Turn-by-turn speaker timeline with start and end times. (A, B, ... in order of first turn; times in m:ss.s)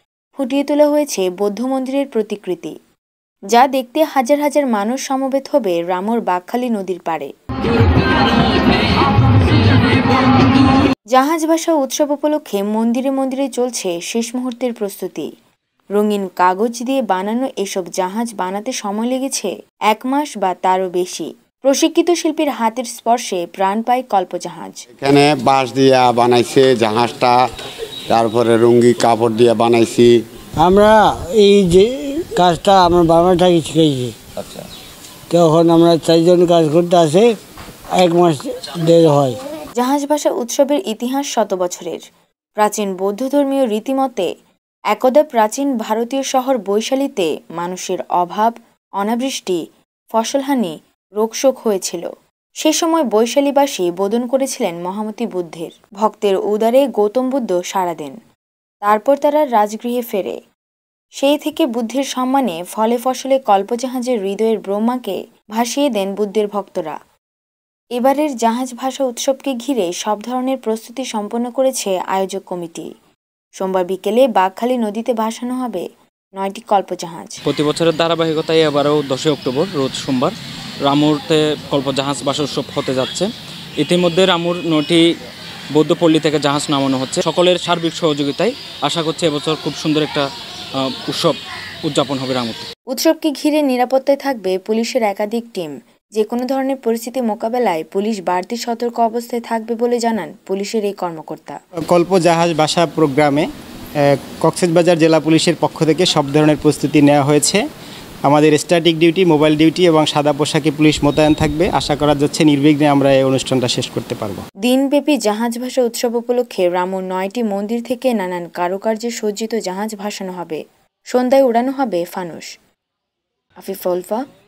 0:00.4-0:02.7 A
0:03.5-0:07.3 A
0:11.1-0:15.3 A
0:16.0-0:24.8 A
0:24.9-0:27.4 B
0:28.1-0:30.2 B
0:30.6-0:34.6 C
0:35.3-0:37.3 C
0:37.9-0:39.4 C
0:39.8-0:42.0 A
0:42.6-0:44.3 A
0:44.9-0:49.6 A
0:50.1-0:52.0 A
0:52.6-0:58.2 A
0:58.8-1:00.3 A
1:01.2-1:07.0 A
1:08.0-1:12.9 A
1:13.6-1:15.8 A
1:16.4-1:17.4 A
1:17.5-1:20.3 D
1:20.8-1:23.3 D
1:23.8-1:25.0 D
1:25.7-1:30.2 D
1:30.8-1:32.7 D
1:32.9-1:41.6 A
1:41.9-1:43.5 E
1:44.2-1:47.6 E
1:48.3-1:54.4 E
1:54.6-2:00.6 A
2:01.1-2:02.5 A
2:03.6-2:04.2 A